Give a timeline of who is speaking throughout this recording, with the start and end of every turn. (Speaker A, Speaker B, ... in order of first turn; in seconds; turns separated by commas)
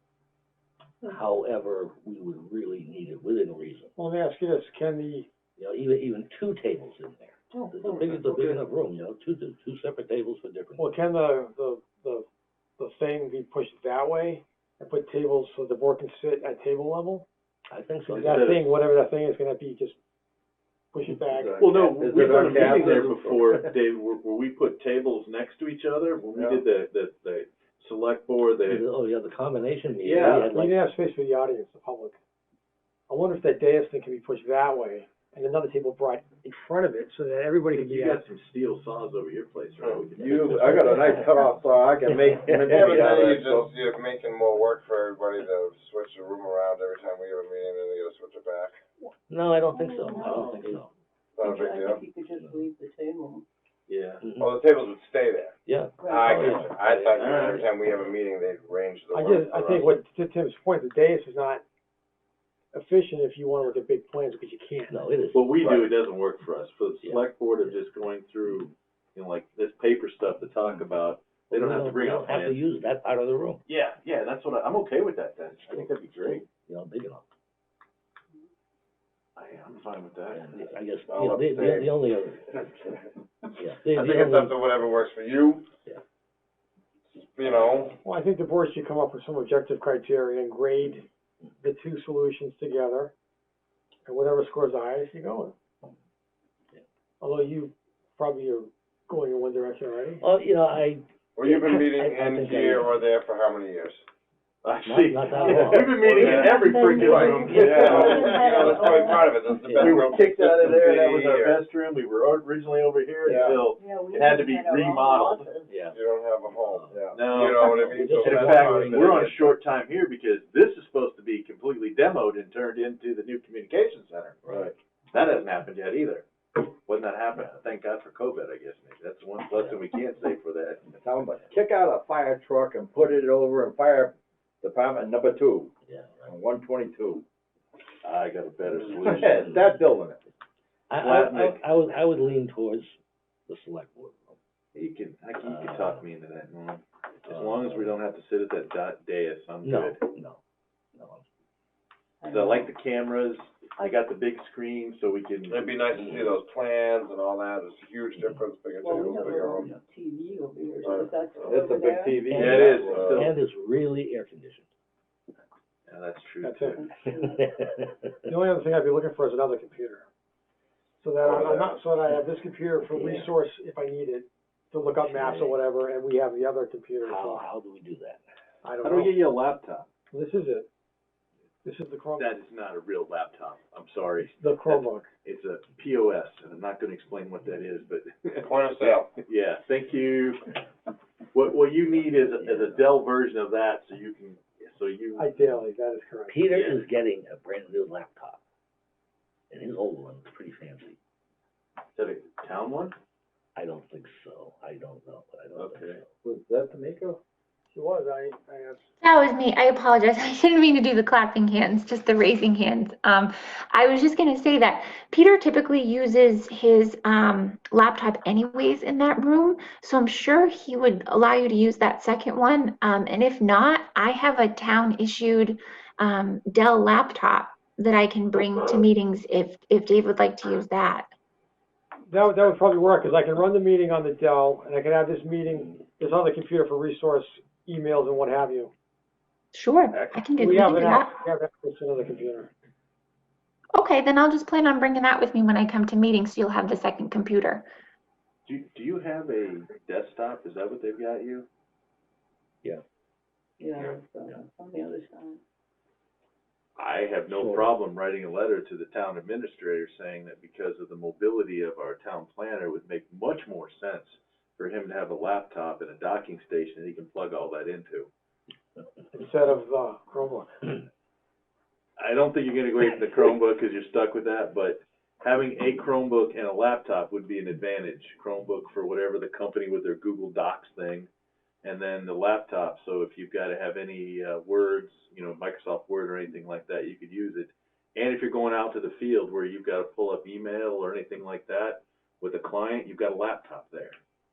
Speaker A: 1.0-3.9, Speaker B: 4.0-5.3, Speaker A: 5.6-11.0, Speaker B: 10.8-12.2, Speaker B: 12.8-17.2, Speaker A: 17.7-18.5, Speaker C: 18.1-18.8, Speaker B: 18.2-20.0, Speaker B: 20.9-21.6, Speaker D: 21.2-23.6, Speaker C: 21.6-28.8, Speaker A: 22.2-23.0, Speaker D: 26.3-26.6, Speaker A: 28.7-30.7, Speaker C: 30.0-30.5, Speaker B: 30.4-32.2, Speaker B: 33.1-38.2, Speaker C: 37.7-40.8, Speaker A: 40.1-41.3, Speaker D: 40.2-43.7, Speaker A: 42.1-43.2, Speaker E: 42.7-48.8, Speaker A: 49.0-50.9, Speaker F: 49.7-50.6, Speaker C: 50.2-50.5, Speaker E: 51.4-52.0, Speaker F: 51.4-53.5, Speaker C: 53.9-54.2, Speaker A: 54.2-54.6, Speaker E: 54.4-60.0, Speaker A: 55.6-57.2, Speaker F: 56.0-56.6, Speaker C: 57.1-58.1, Speaker B: 59.1-61.6, Speaker B: 62.7-65.0, Speaker A: 64.9-65.8, Speaker C: 65.3-72.6, Speaker A: 67.0-67.7, Speaker A: 71.5-73.6, Speaker C: 73.7-76.4, Speaker A: 75.6-77.2, Speaker C: 79.3-80.6, Speaker A: 80.3-82.7, Speaker E: 81.1-81.9, Speaker A: 83.6-84.6, Speaker E: 83.8-85.7, Speaker E: 87.1-88.0, Speaker B: 88.0-91.1, Speaker B: 91.6-93.1, Speaker B: 94.0-95.5, Speaker B: 97.2-100.2, Speaker A: 100.2-103.0, Speaker E: 101.3-104.0, Speaker C: 104.6-108.5, Speaker A: 104.8-110.1, Speaker E: 105.6-111.6, Speaker F: 106.3-109.4, Speaker C: 109.8-115.5, Speaker D: 113.2-113.6, Speaker E: 113.2-113.6, Speaker F: 113.7-115.7, Speaker A: 115.7-116.0, Speaker E: 115.9-119.3, Speaker A: 116.6-117.0, Speaker D: 116.9-117.2, Speaker C: 117.1-130.9, Speaker A: 117.5-119.5, Speaker A: 124.5-124.7, Speaker D: 131.0-135.7, Speaker A: 135.9-136.3, Speaker D: 136.2-137.2, Speaker C: 138.0-139.6, Speaker D: 139.0-140.2, Speaker A: 139.4-139.6, Speaker A: 140.9-142.9, Speaker C: 140.9-141.6, Speaker A: 143.5-144.4, Speaker C: 144.7-150.0, Speaker A: 145.4-146.0, Speaker A: 147.2-147.9, Speaker A: 149.6-150.4, Speaker A: 150.9-151.3, Speaker F: 152.2-152.7, Speaker C: 152.2-155.8, Speaker E: 155.5-159.7, Speaker A: 155.9-156.3, Speaker F: 158.8-162.3, Speaker E: 160.8-161.8, Speaker D: 161.4-163.2, Speaker A: 162.3-164.7, Speaker E: 162.3-163.3, Speaker C: 162.3-163.3, Speaker C: 165.9-166.8, Speaker B: 166.4-166.7, Speaker F: 166.7-167.6, Speaker A: 167.1-168.1, Speaker B: 168.3-170.1, Speaker B: 171.0-177.5, Speaker E: 171.3-171.7, Speaker A: 172.8-173.3, Speaker A: 175.0-175.6, Speaker A: 177.0-178.2, Speaker B: 178.6-179.2, Speaker C: 178.8-179.8, Speaker B: 180.1-180.7, Speaker B: 181.6-182.3, Speaker C: 182.2-190.5, Speaker B: 184.4-185.1, Speaker E: 188.4-189.1, Speaker C: 191.3-195.5, Speaker A: 192.0-192.8, Speaker B: 195.1-196.5, Speaker A: 196.3-198.4, Speaker C: 196.5-196.8, Speaker A: 199.5-201.0, Speaker C: 201.9-202.9, Speaker A: 203.5-206.1, Speaker C: 205.5-206.0, Speaker D: 206.2-207.2, Speaker B: 207.7-208.9, Speaker G: 209.0-231.1, Speaker B: 232.1-238.7, Speaker G: 239.5-241.2, Speaker B: 240.3-242.5, Speaker G: 243.7-247.6, Speaker C: 248.4-251.5, Speaker F: 253.6-255.4, Speaker A: 253.8-254.3, Speaker C: 256.8-268.1, Speaker A: 257.3-257.8, Speaker B: 269.1-270.7, Speaker C: 272.0-281.1, Speaker C: 281.6-294.0